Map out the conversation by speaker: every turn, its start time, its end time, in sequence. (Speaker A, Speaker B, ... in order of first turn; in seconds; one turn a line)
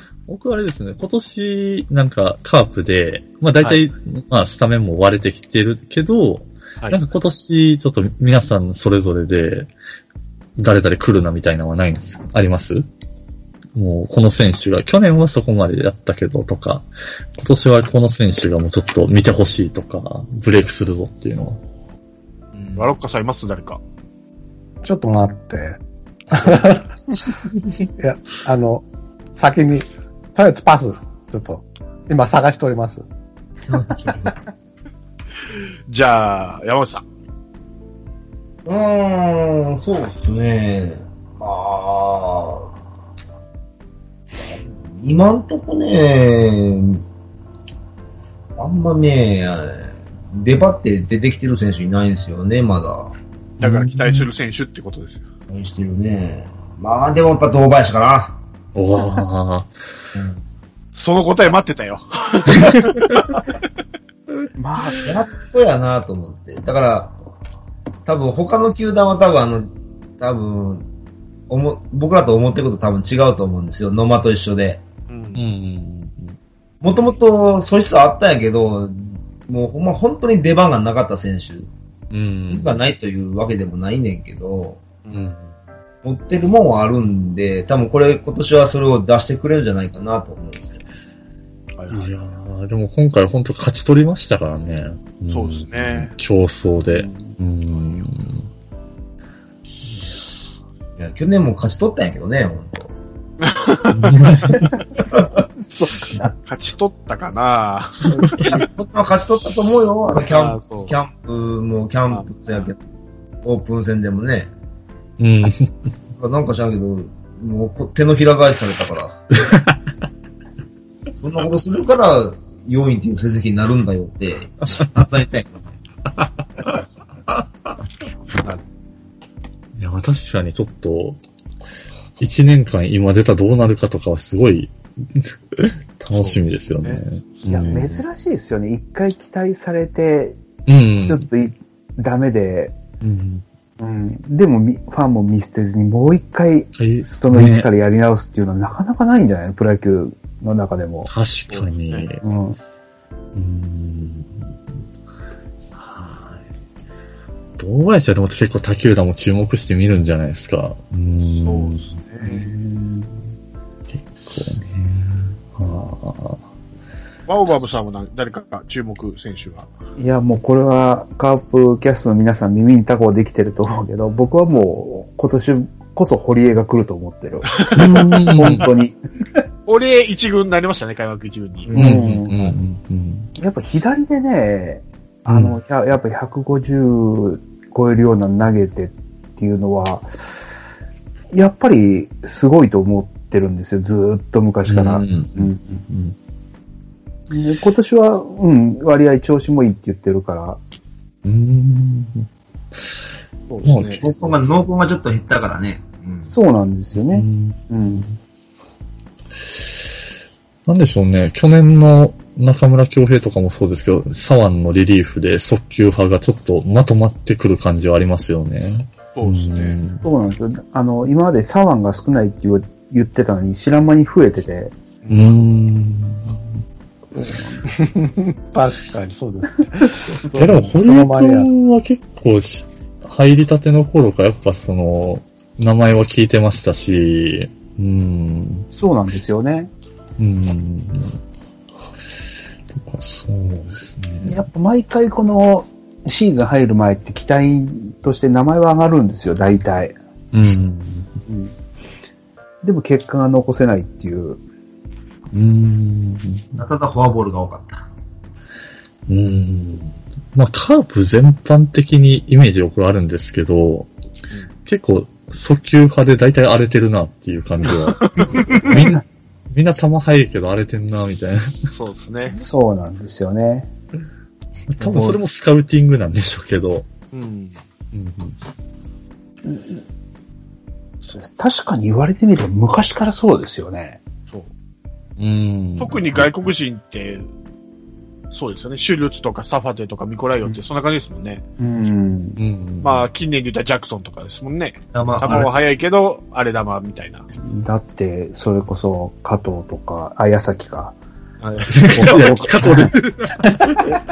Speaker A: 0.3-9.7
Speaker A: 10.6-12.9
Speaker A: 13.8-16.9
Speaker A: 17.4-21.6
Speaker B: 22.6-22.9
Speaker C: 22.8-23.8
Speaker D: 24.8-25.8
Speaker D: 26.3-26.9
Speaker D: 28.0-28.9
Speaker D: 29.4-33.0
Speaker B: 33.6-34.4
Speaker C: 35.9-37.1
Speaker B: 38.6-42.7
Speaker B: 44.4-47.0
Speaker B: 48.6-53.1
Speaker A: 53.6-54.3
Speaker C: 53.6-55.2
Speaker B: 55.5-58.4
Speaker A: 58.8-59.7
Speaker B: 60.1-60.4
Speaker C: 61.0-63.4
Speaker E: 64.6-65.1
Speaker B: 65.0-67.1
Speaker B: 68.1-70.9
Speaker B: 71.5-74.8
Speaker C: 75.1-75.4
Speaker A: 75.3-76.4
Speaker B: 76.8-81.7
Speaker A: 82.1-82.8
Speaker B: 82.5-84.8
Speaker A: 85.1-85.5
Speaker B: 86.0-90.8
Speaker C: 91.8-92.1
Speaker A: 91.9-98.5
Speaker C: 95.3-96.1
Speaker E: 96.9-97.4
Speaker B: 101.0-102.9
Speaker C: 103.4-104.3
Speaker A: 103.9-104.7
Speaker E: 105.8-106.3
Speaker C: 106.5-108.6
Speaker B: 108.5-112.8
Speaker C: 110.3-111.0
Speaker B: 113.4-114.5
Speaker A: 115.2-115.7
Speaker B: 116.2-119.2
Speaker A: 119.5-119.8
Speaker B: 121.2-125.7
Speaker A: 129.8-131.2
Speaker A: 132.2-138.0
Speaker C: 136.2-137.9
Speaker E: 137.5-140.4
Speaker A: 140.7-141.3
Speaker E: 140.9-142.8
Speaker A: 143.0-143.4
Speaker E: 143.8-151.1
Speaker A: 146.8-147.7
Speaker A: 151.1-152.2
Speaker C: 151.5-152.1
Speaker E: 152.2-152.6
Speaker A: 153.3-154.4
Speaker A: 155.8-156.4
Speaker A: 157.6-161.8
Speaker C: 161.2-162.5
Speaker E: 162.2-163.2
Speaker A: 163.9-166.4
Speaker C: 167.3-169.7
Speaker E: 170.0-179.0
Speaker C: 177.6-177.9
Speaker A: 177.8-178.7
Speaker C: 179.7-181.8
Speaker E: 181.7-182.6
Speaker A: 181.8-183.3
Speaker E: 183.4-190.1
Speaker A: 185.3-185.6
Speaker E: 191.3-195.8
Speaker A: 194.7-196.2
Speaker E: 197.3-200.6
Speaker A: 201.2-202.3
Speaker C: 203.5-204.0
Speaker A: 203.7-204.1
Speaker B: 203.8-206.3
Speaker E: 206.3-208.1
Speaker A: 206.9-208.1
Speaker A: 210.7-220.1
Speaker C: 219.2-219.8
Speaker E: 220.0-224.7
Speaker C: 225.0-225.4
Speaker A: 225.1-226.4
Speaker E: 227.2-227.6
Speaker D: 227.7-231.5
Speaker E: 230.2-230.7
Speaker A: 230.3-238.7
Speaker E: 238.7-239.7
Speaker A: 240.2-241.2
Speaker A: 242.7-244.4
Speaker E: 244.2-249.9
Speaker A: 250.3-251.1
Speaker E: 251.3-251.5
Speaker E: 252.6-254.4
Speaker A: 255.3-256.6
Speaker B: 256.6-257.9
Speaker A: 259.1-263.9
Speaker A: 264.7-271.7
Speaker C: 267.7-268.7
Speaker E: 268.6-269.0
Speaker C: 271.6-272.4
Speaker E: 272.4-273.7
Speaker A: 274.7-276.9
Speaker E: 274.8-275.2
Speaker C: 277.1-277.6
Speaker A: 277.9-278.4
Speaker E: 279.5-279.8
Speaker E: 281.1-284.0
Speaker A: 285.2-286.3
Speaker C: 285.8-287.3
Speaker C: 288.3-291.4
Speaker E: 291.6-292.4
Speaker A: 292.4-293.1
Speaker C: 292.8-297.3
Speaker B: 294.9-295.5
Speaker E: 297.4-300.9
Speaker C: 301.4-302.3
Speaker A: 301.7-303.9
Speaker E: 301.9-302.9